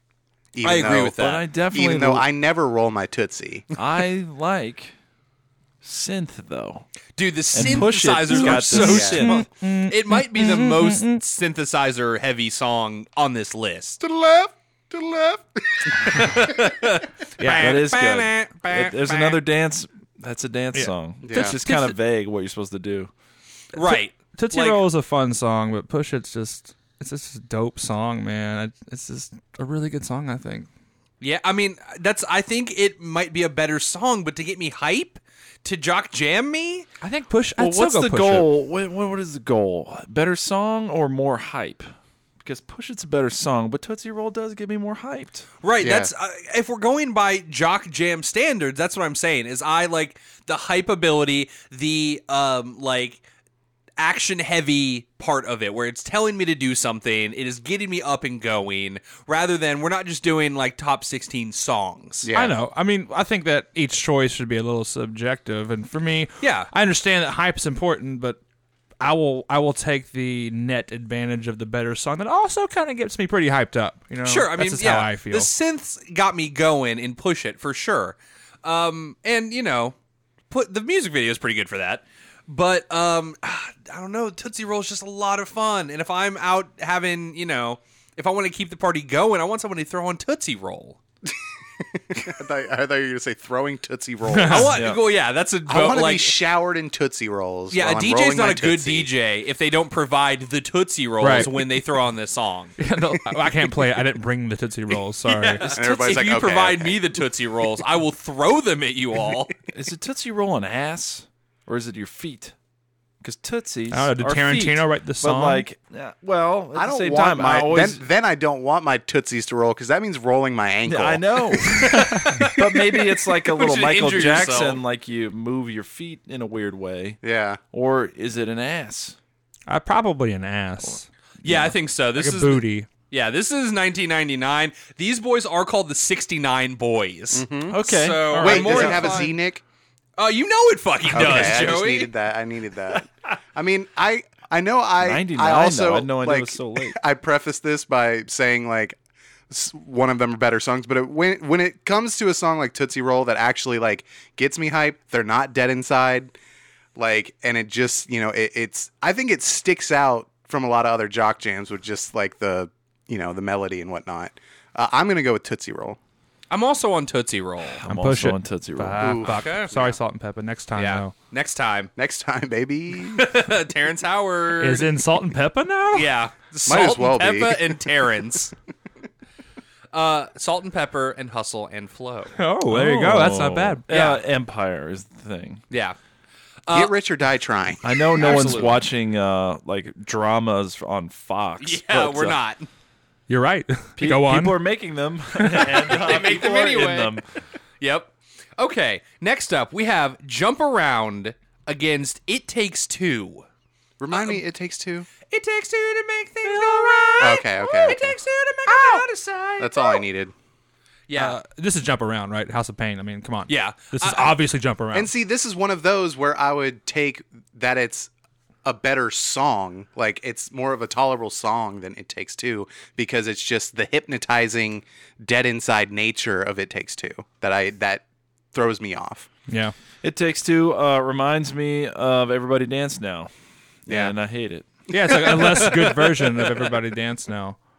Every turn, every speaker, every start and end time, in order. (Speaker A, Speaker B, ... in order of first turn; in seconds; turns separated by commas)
Speaker A: 0.5-1.1, Speaker B: 0.6-1.4, Speaker C: 1.2-2.2, Speaker A: 1.7-3.7, Speaker C: 3.7-4.9, Speaker C: 5.8-6.8, Speaker B: 7.2-14.0, Speaker C: 7.5-9.5, Speaker D: 7.6-11.2, Speaker A: 8.8-9.2, Speaker A: 14.0-16.5, Speaker B: 16.0-19.4, Speaker D: 17.4-17.8, Speaker C: 17.5-23.1, Speaker D: 20.7-21.9, Speaker A: 21.2-21.6, Speaker B: 23.7-24.8, Speaker D: 23.8-30.7, Speaker B: 31.2-36.9, Speaker D: 37.0-38.5, Speaker C: 37.6-41.9, Speaker C: 42.4-45.4, Speaker B: 45.6-53.2, Speaker A: 45.8-46.1, Speaker B: 54.0-62.3, Speaker A: 62.2-62.5, Speaker D: 62.3-68.4, Speaker B: 66.4-66.7, Speaker D: 69.0-75.5, Speaker B: 74.2-79.9, Speaker B: 80.5-91.0, Speaker A: 91.9-94.8, Speaker D: 94.3-94.8, Speaker B: 94.4-96.3, Speaker C: 94.7-95.0, Speaker A: 95.7-99.1, Speaker B: 97.7-102.8, Speaker D: 101.2-101.5, Speaker D: 102.8-105.7, Speaker B: 105.2-109.5, Speaker A: 105.7-107.0, Speaker C: 109.7-112.5, Speaker C: 113.2-118.0, Speaker D: 113.9-115.7, Speaker A: 116.7-121.8, Speaker C: 120.8-127.2, Speaker B: 121.8-124.8, Speaker A: 127.2-127.6, Speaker C: 127.7-129.2, Speaker D: 129.7-131.1, Speaker B: 131.4-139.3, Speaker C: 131.4-131.7, Speaker D: 132.1-132.9, Speaker A: 137.3-137.8, Speaker C: 137.7-139.3, Speaker A: 138.3-139.6, Speaker B: 140.2-142.1, Speaker A: 141.1-149.0, Speaker C: 145.0-147.0, Speaker A: 149.5-156.3, Speaker A: 156.9-166.0, Speaker B: 166.5-167.8, Speaker C: 167.8-169.2, Speaker D: 167.8-171.1, Speaker A: 169.0-170.0, Speaker B: 169.2-169.7, Speaker B: 170.7-171.9, Speaker A: 172.0-173.3, Speaker B: 173.0-174.9, Speaker D: 174.6-176.1, Speaker B: 175.9-178.5, Speaker A: 176.7-177.8, Speaker B: 179.9-182.3, Speaker D: 182.4-183.8, Speaker C: 182.7-185.6, Speaker B: 183.9-184.2, Speaker B: 185.7-186.0, Speaker B: 186.7-186.9, Speaker A: 186.7-188.4, Speaker C: 187.8-192.4, Speaker B: 188.2-188.8, Speaker B: 191.6-192.7, Speaker D: 193.3-194.6, Speaker C: 194.0-197.2, Speaker D: 195.5-195.8, Speaker B: 195.8-197.2, Speaker B: 197.8-203.4, Speaker A: 204.0-205.1, Speaker B: 204.1-204.4, Speaker B: 205.3-210.0, Speaker D: 206.4-207.4, Speaker A: 207.2-208.2, Speaker D: 208.7-209.1, Speaker A: 209.6-210.3, Speaker B: 211.1-211.4, Speaker D: 211.1-215.1, Speaker B: 213.5-214.3, Speaker A: 214.9-218.1, Speaker A: 218.6-229.3, Speaker D: 229.5-229.7, Speaker C: 230.0-233.3, Speaker C: 233.8-234.7, Speaker A: 233.9-234.1, Speaker D: 234.9-237.6, Speaker A: 235.0-235.9